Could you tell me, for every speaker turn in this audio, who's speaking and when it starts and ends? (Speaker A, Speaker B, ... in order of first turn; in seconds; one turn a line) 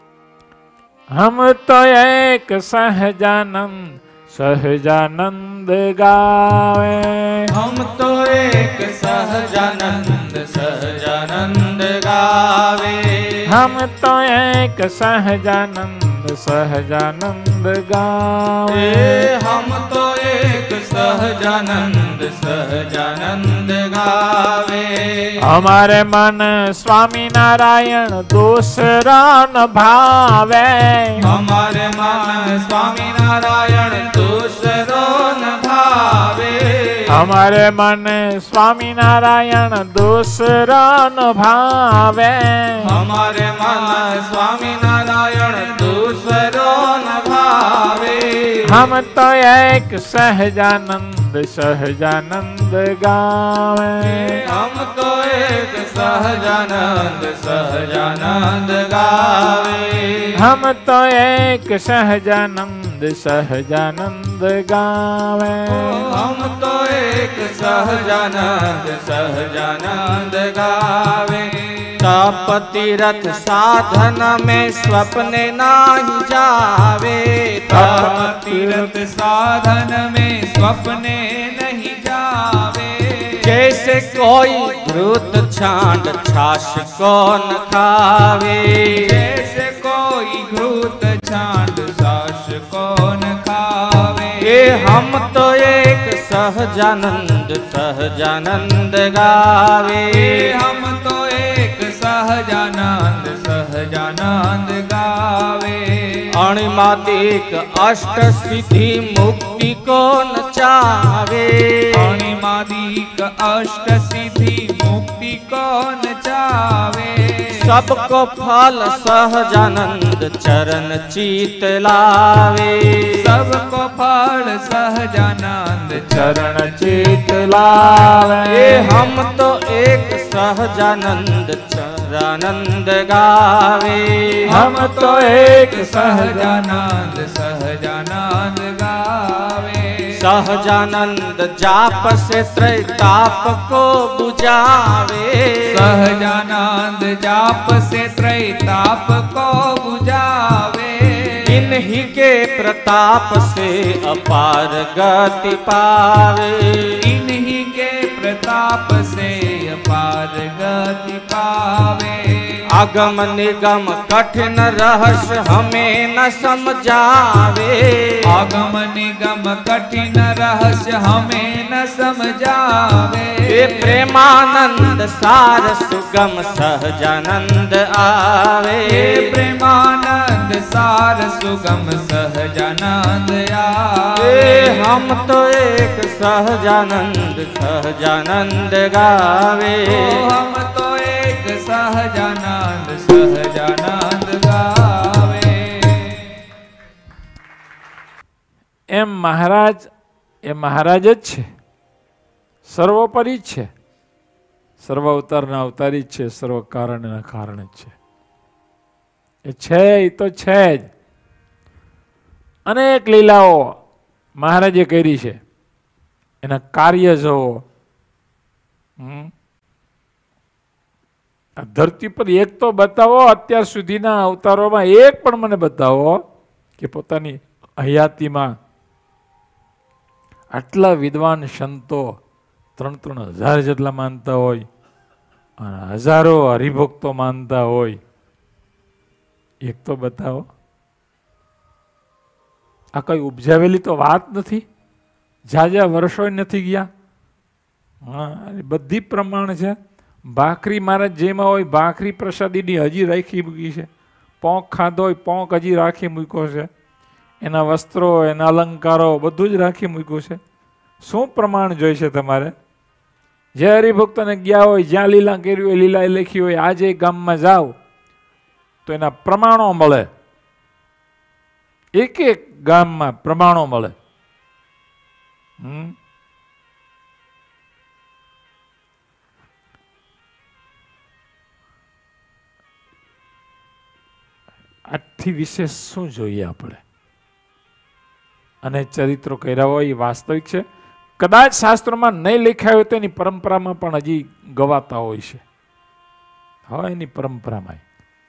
Speaker A: 1.1-7.5
Speaker B: 7.5-13.5
Speaker A: 13.5-19.3
Speaker B: 18.7-25.4
Speaker A: 25.4-31.2
Speaker B: 31.2-37.1
Speaker A: 37.1-42.9
Speaker B: 42.8-48.8
Speaker A: 48.6-54.4
Speaker B: 54.3-60.3
Speaker A: 60.4-66.0
Speaker B: 65.8-78.1
Speaker A: 77.7-78.9
Speaker C: 77.7-83.5
Speaker B: 83.4-89.2
Speaker C: 88.9-94.6
Speaker B: 94.4-100.5
Speaker C: 100.1-106.3
Speaker B: 106.3-112.2
Speaker C: 111.9-117.6
Speaker B: 117.5-123.2
Speaker C: 123.2-127.1
Speaker A: 125.9-128.9
Speaker B: 128.5-134.5
Speaker C: 134.4-140.1
Speaker A: 134.5-136.6
Speaker B: 140.1-146.0
Speaker C: 145.7-151.7
Speaker B: 151.4-157.0
Speaker C: 157.0-162.6
Speaker B: 162.7-168.2
Speaker C: 168.2-174.0
Speaker B: 173.4-179.3
Speaker C: 178.9-184.8
Speaker B: 184.2-190.2
Speaker C: 189.9-196.2
Speaker A: 198.9-199.9
Speaker A: 200.5-201.5
Speaker A: 202.7-203.7
Speaker A: 204.8-207.9
Speaker A: 209.5-210.9
Speaker A: 212.7-213.7
Speaker A: 214.4-215.4
Speaker A: 216.4-217.6
Speaker A: 219.0-219.3
Speaker A: 221.6-226.2
Speaker A: 226.8-228.5
Speaker A: 230.5-232.1
Speaker A: 232.8-234.7
Speaker A: 235.6-238.0
Speaker A: 239.7-240.4
Speaker A: 242.9-244.6
Speaker A: 245.5-246.9
Speaker A: 248.0-249.8
Speaker A: 250.3-253.9
Speaker A: 254.4-256.7
Speaker A: 257.4-260.4
Speaker A: 261.0-262.5
Speaker A: 263.6-267.7
Speaker A: 268.9-270.1
Speaker A: 272.0-273.9
Speaker A: 275.6-275.9
Speaker A: 284.9-286.8
Speaker A: 288.6-290.6
Speaker A: 291.2-295.4
Speaker A: 296.7-297.8